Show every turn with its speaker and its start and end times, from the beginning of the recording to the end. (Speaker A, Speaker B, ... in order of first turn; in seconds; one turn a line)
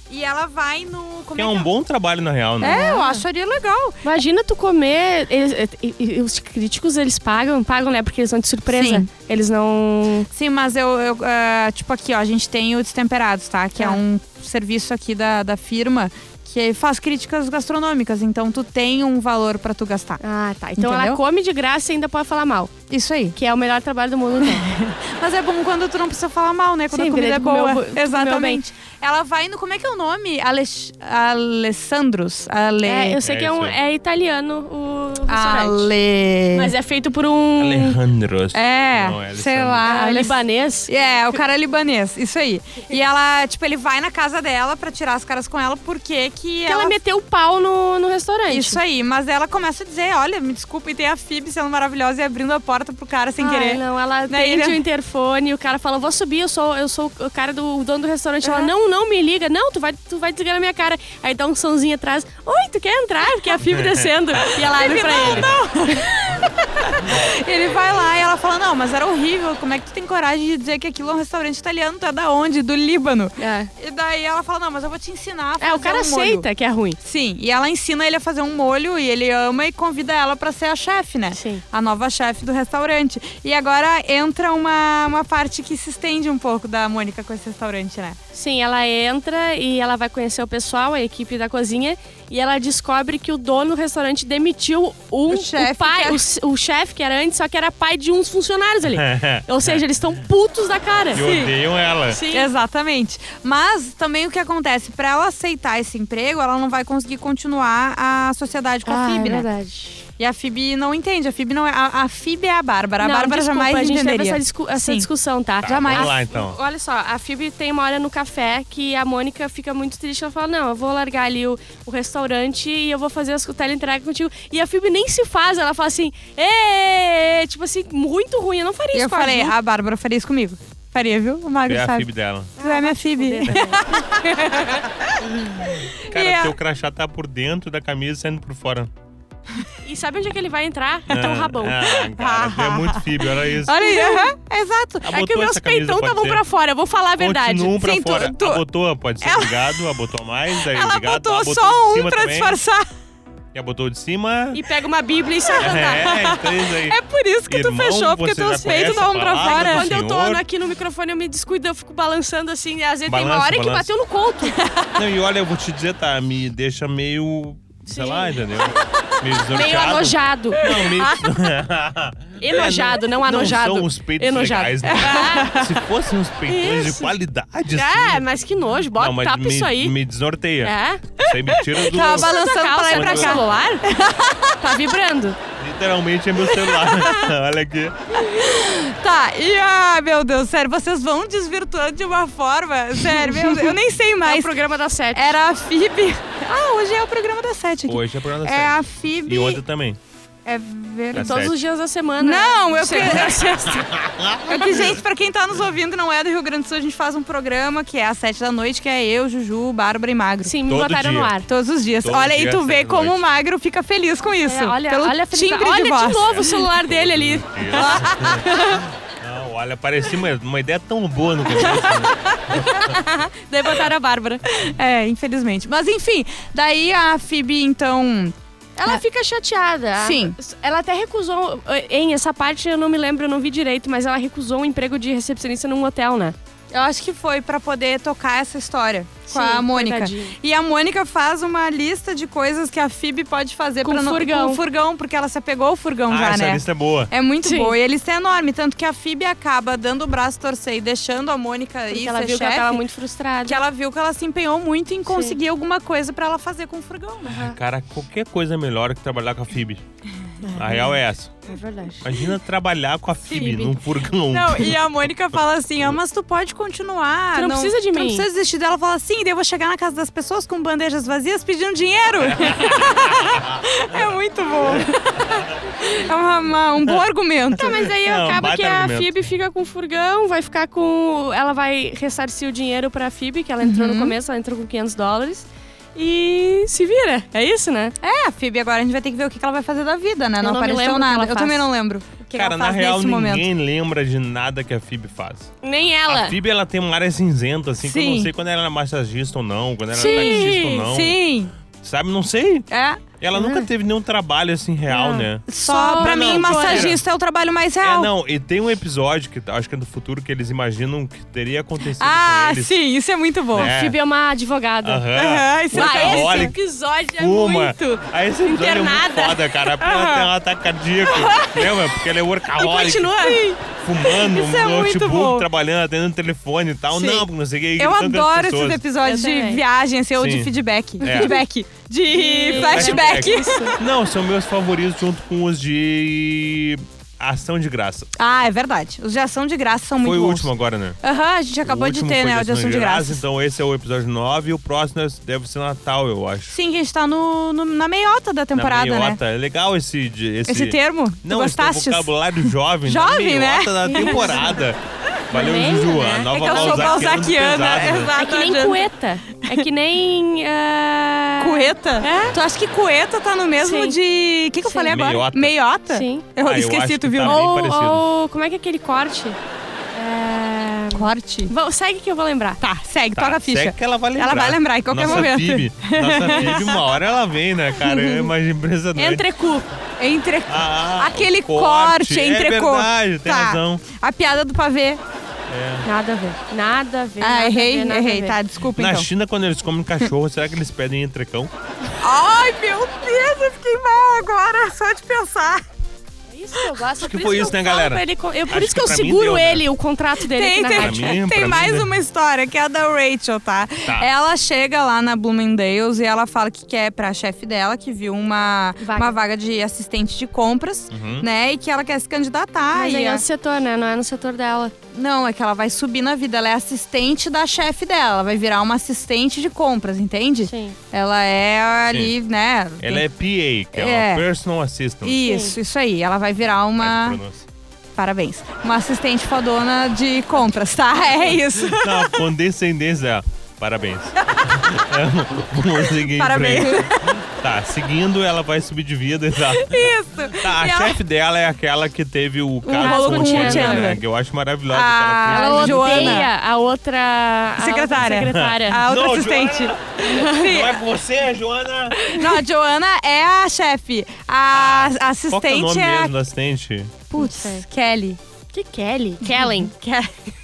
Speaker A: 0.1-1.7
Speaker B: 1.4-2.8
Speaker A: 2.6-4.0
Speaker C: 2.6-3.2
Speaker C: 4.0-10.3
Speaker A: 8.7-9.1
Speaker A: 10.3-20.2
Speaker C: 20.2-22.7
Speaker A: 20.8-21.2
Speaker A: 22.9-23.3
Speaker C: 23.3-24.6
Speaker A: 24.4-33.2
Speaker C: 26.9-28.7
Speaker C: 32.8-35.9
Speaker B: 33.2-33.8
Speaker A: 35.3-36.7
Speaker C: 36.5-38.0
Speaker B: 37.6-39.9
Speaker A: 38.5-47.0
Speaker C: 39.8-41.4
Speaker C: 46.7-48.8
Speaker A: 48.5-54.8
Speaker C: 53.4-66.0
Speaker A: 58.4-58.7
Speaker B: 63.6-64.5
Speaker A: 64.5-76.5
Speaker B: 65.1-65.5
Speaker C: 73.4-73.7
Speaker C: 75.6-77.0
Speaker A: 77.0-88.2
Speaker C: 81.3-81.6
Speaker C: 88.3-101.2
Speaker A: 95.3-96.2
Speaker B: 98.9-99.8
Speaker A: 101.1-101.5
Speaker B: 101.1-102.2
Speaker C: 102.1-102.5
Speaker A: 102.3-109.5
Speaker C: 108.8-110.0
Speaker A: 110.2-115.0
Speaker C: 113.0-129.5
Speaker A: 115.6-116.1
Speaker B: 115.6-116.6
Speaker A: 128.9-136.5
Speaker B: 131.7-132.5
Speaker C: 132.6-134.1
Speaker B: 135.3-138.9
Speaker C: 139.8-142.0
Speaker B: 141.1-143.9
Speaker A: 141.9-145.1
Speaker C: 143.7-144.3
Speaker C: 145.0-147.8
Speaker B: 145.0-146.4
Speaker B: 147.2-152.6
Speaker A: 147.8-148.6
Speaker A: 149.2-149.9
Speaker A: 150.5-152.8
Speaker B: 153.5-154.6
Speaker C: 154.5-156.0
Speaker A: 155.5-159.9
Speaker B: 155.6-157.0
Speaker B: 157.5-160.4
Speaker C: 158.4-164.6
Speaker B: 163.1-163.9
Speaker A: 164.6-164.9
Speaker B: 165.0-178.2
Speaker C: 167.8-168.4
Speaker C: 169.5-171.3
Speaker A: 170.6-170.9
Speaker C: 172.4-175.8
Speaker A: 174.8-175.6
Speaker C: 176.5-177.1
Speaker C: 177.7-179.9
Speaker B: 178.9-182.3
Speaker C: 180.6-183.8
Speaker A: 181.8-184.6
Speaker B: 182.9-183.6
Speaker C: 184.6-185.4
Speaker B: 185.6-187.9
Speaker A: 186.4-187.3
Speaker A: 188.1-194.5
Speaker C: 193.0-195.3
Speaker A: 195.1-199.6
Speaker B: 197.9-200.0
Speaker A: 200.4-201.4
Speaker B: 201.1-201.5
Speaker C: 201.1-203.9
Speaker A: 202.2-203.7
Speaker B: 203.0-204.8
Speaker A: 204.4-210.5
Speaker C: 210.4-211.5
Speaker B: 210.7-211.3
Speaker A: 211.4-216.5
Speaker B: 212.0-213.2
Speaker C: 214.4-218.8
Speaker B: 216.2-222.9
Speaker A: 217.7-218.5
Speaker C: 221.5-221.8
Speaker A: 221.6-223.9
Speaker C: 222.9-224.4
Speaker A: 224.4-228.3
Speaker C: 228.8-236.3
Speaker A: 230.0-230.3
Speaker A: 236.7-252.8
Speaker C: 239.3-240.3
Speaker C: 243.8-244.6
Speaker B: 246.1-247.1
Speaker C: 247.4-247.8
Speaker C: 251.9-253.6
Speaker A: 253.5-257.4
Speaker C: 255.1-255.3
Speaker C: 257.3-257.6
Speaker B: 257.5-259.8
Speaker C: 260.4-260.9
Speaker B: 260.5-261.4
Speaker C: 261.5-262.3
Speaker B: 262.0-264.8
Speaker A: 263.2-277.8
Speaker C: 267.3-268.3
Speaker B: 272.4-272.9
Speaker C: 277.5-287.9
Speaker B: 277.6-279.1
Speaker A: 283.6-284.1
Speaker A: 288.0-293.5
Speaker C: 290.4-291.7
Speaker B: 292.3-295.5
Speaker C: 295.6-296.4
Speaker B: 296.1-301.2
Speaker A: 297.8-298.3
Speaker C: 299.9-300.9
Speaker A: 300.0-301.5
Speaker B: 301.8-302.7
Speaker A: 302.7-303.0
Speaker B: 303.2-307.0
Speaker C: 303.3-303.7
Speaker C: 304.9-306.9
Speaker A: 305.5-308.1
Speaker B: 307.8-312.8
Speaker A: 312.0-313.7
Speaker B: 313.5-314.0
Speaker C: 313.6-315.1
Speaker B: 314.8-316.6
Speaker A: 315.1-316.5
Speaker C: 315.7-319.4
Speaker B: 317.2-323.2
Speaker A: 319.8-320.3
Speaker A: 321.1-321.4
Speaker C: 321.3-321.8
Speaker C: 322.6-323.6
Speaker A: 323.1-323.4
Speaker B: 323.7-328.8
Speaker A: 324.0-325.4
Speaker A: 327.8-333.8
Speaker C: 329.0-329.6
Speaker B: 330.2-331.4
Speaker C: 331.0-331.4
Speaker C: 332.1-333.8
Speaker B: 332.5-338.1
Speaker A: 338.2-343.2
Speaker B: 340.0-341.0
Speaker B: 341.6-346.5
Speaker A: 346.5-349.2
Speaker B: 348.5-354.8
Speaker A: 350.4-354.6
Speaker C: 353.8-354.6
Speaker B: 355.3-358.1
Speaker C: 355.3-357.2
Speaker A: 356.2-358.9
Speaker C: 358.2-362.4
Speaker A: 361.4-367.4
Speaker C: 363.6-364.0
Speaker C: 364.6-364.9
Speaker B: 364.9-365.5
Speaker C: 365.9-366.3
Speaker B: 366.4-368.1
Speaker C: 367.2-369.4
Speaker C: 369.9-372.6
Speaker A: 370.9-371.5
Speaker A: 372.6-376.9
Speaker B: 373.1-379.3
Speaker C: 375.0-375.4
Speaker C: 376.2-376.6
Speaker C: 377.8-378.3
Speaker C: 378.9-379.7
Speaker A: 380.0-385.0
Speaker B: 380.5-383.8
Speaker B: 385.5-385.9
Speaker C: 385.8-388.4
Speaker A: 387.2-389.1
Speaker B: 388.7-391.5
Speaker A: 392.0-395.6
Speaker C: 396.3-401.2
Speaker B: 397.0-399.6
Speaker A: 400.2-413.2
Speaker B: 400.7-402.0
Speaker C: 408.8-409.1
Speaker B: 410.9-411.2
Speaker C: 412.7-414.7
Speaker A: 414.9-423.1
Speaker C: 420.4-420.8
Speaker B: 422.8-425.2
Speaker A: 423.7-424.2
Speaker A: 425.0-427.2
Speaker C: 425.2-425.6
Speaker B: 426.8-427.4
Speaker A: 427.9-432.2
Speaker B: 431.7-446.2
Speaker A: 434.2-434.5
Speaker A: 436.1-437.2
Speaker A: 439.4-441.0
Speaker C: 442.6-443.9
Speaker A: 442.8-444.0
Speaker A: 444.7-446.3
Speaker C: 445.3-448.8
Speaker A: 447.6-450.8
Speaker B: 448.0-451.9
Speaker C: 450.1-450.5
Speaker C: 451.9-452.3
Speaker A: 452.1-456.1
Speaker B: 454.5-457.0
Speaker A: 457.1-458.2
Speaker C: 457.1-457.6
Speaker C: 458.5-459.7
Speaker A: 459.2-460.1